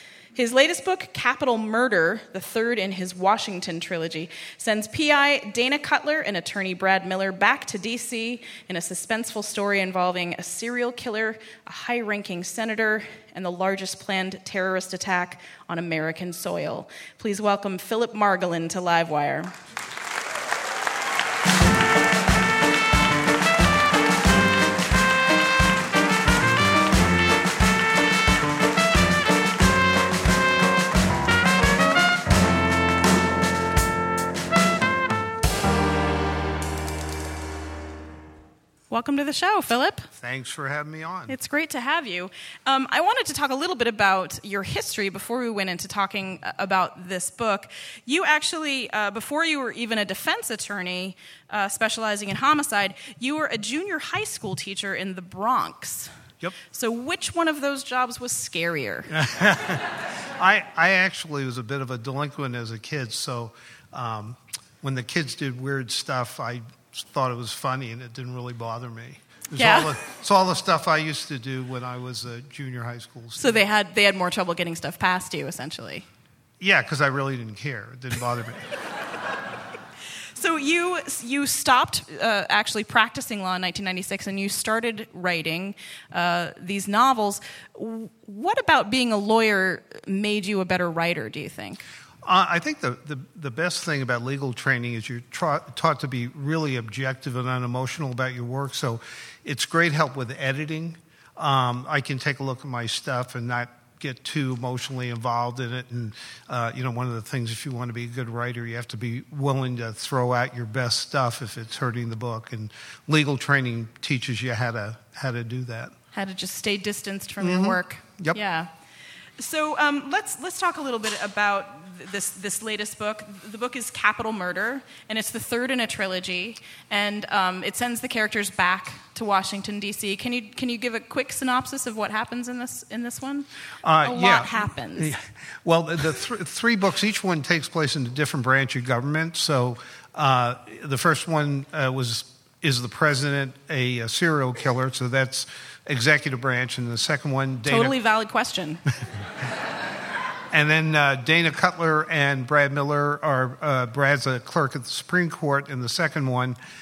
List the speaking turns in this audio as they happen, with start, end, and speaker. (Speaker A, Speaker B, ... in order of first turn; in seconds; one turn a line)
Speaker A: 0.3-19.5
Speaker A: 38.9-40.0
Speaker B: 40.2-41.4
Speaker A: 41.3-56.1
Speaker A: 56.7-59.1
Speaker B: 59.1-59.8
Speaker B: 60.4-73.6
Speaker A: 69.6-70.0
Speaker A: 73.4-76.1
Speaker B: 76.6-78.7
Speaker A: 80.4-91.8
Speaker B: 92.2-115.9
Speaker A: 116.1-118.7
Speaker B: 117.4-118.4
Speaker A: 119.4-133.5
Speaker B: 133.8-148.0
Speaker A: 134.0-135.1
Speaker A: 147.7-148.8
Speaker B: 150.5-156.6